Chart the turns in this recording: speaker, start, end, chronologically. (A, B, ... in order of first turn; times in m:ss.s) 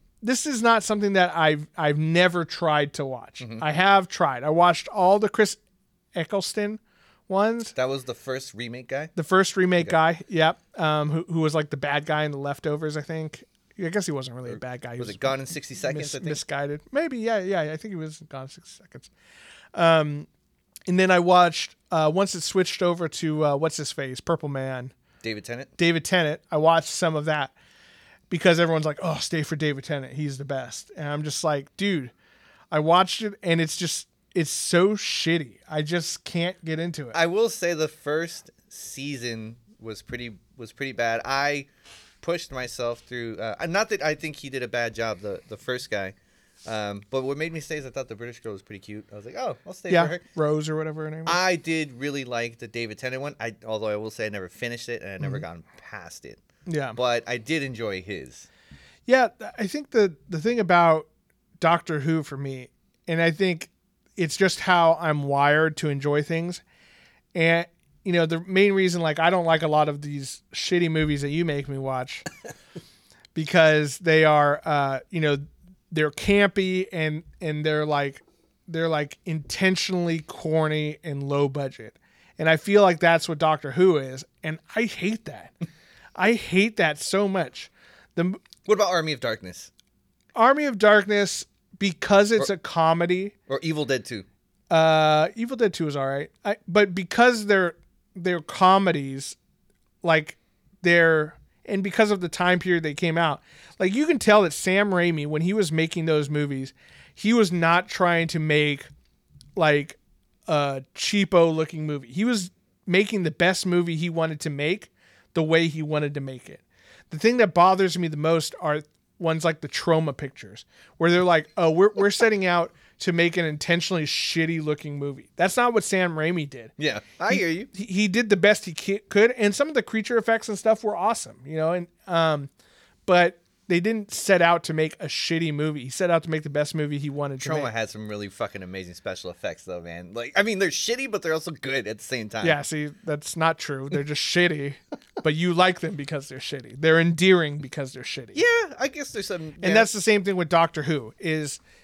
0:00.2-0:05.6 A
0:06.2-0:07.8 A
0:07.8-0:09.1 B
0:09.2-0:19.1 A
0:14.5-0:16.4 B
0:19.8-0:20.3 A
0:20.9-0:24.9 A
0:25.2-0:25.7 B
0:25.8-0:27.5 A
0:28.3-0:32.1 A
0:32.7-0:37.2 A
0:37.1-0:41.7 B
0:42.2-0:50.2 B
0:49.9-0:51.4 A
0:51.3-0:56.4 B
0:56.7-0:57.0 A
0:57.0-0:58.5 B
0:59.1-1:01.1 A
1:01.6-1:06.6 A
1:07.3-1:12.3 A
1:13.4-1:25.5 A
1:26.2-1:28.4 A
1:28.7-1:29.7 B
1:30.4-1:33.4 A
1:33.5-1:34.3 B
1:34.7-1:39.4 A
1:40.0-1:48.9 A
1:49.6-2:06.7 A
2:06.8-2:07.7 B
2:07.3-2:12.5 A
2:13.1-2:17.7 A
2:17.4-2:22.6 B
2:22.4-2:28.4 A
2:28.3-2:29.9 B
2:29.6-2:31.6 A